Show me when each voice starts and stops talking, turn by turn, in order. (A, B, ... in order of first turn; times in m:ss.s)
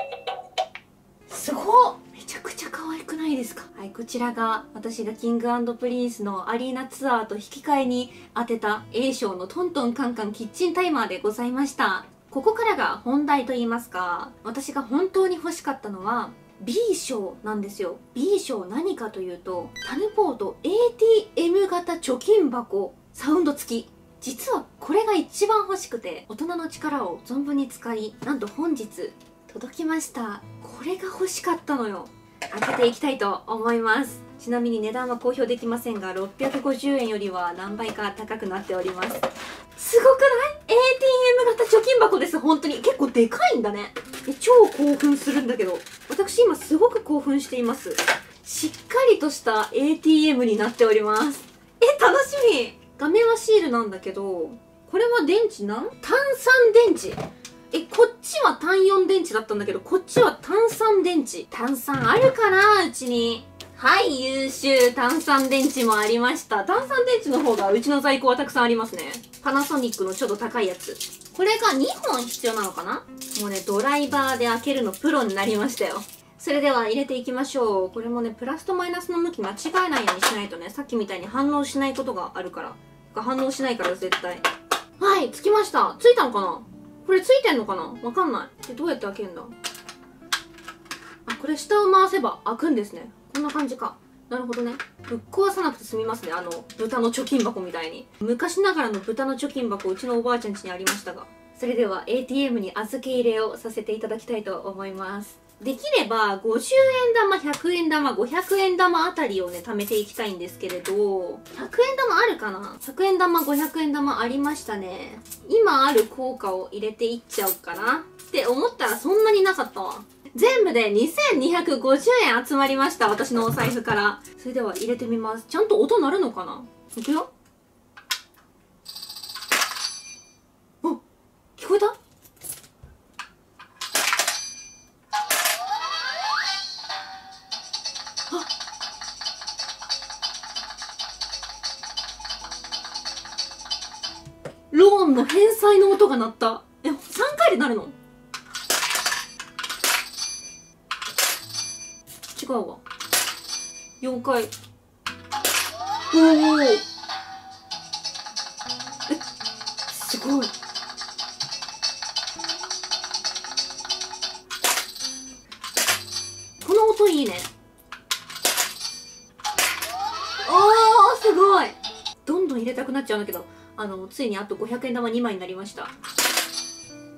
0:01.3-0:57.2 A
0:57.7-1:24.4 A
1:25.0-1:29.5 A
1:31.3-2:07.3 A
2:11.6-2:12.0 A
2:24.7-2:27.9 A
2:32.3-2:32.8 A
2:34.0-2:34.5 A
2:36.1-2:36.8 A
2:39.9-2:40.5 A
2:46.6-2:47.5 A
2:50.4-2:55.9 A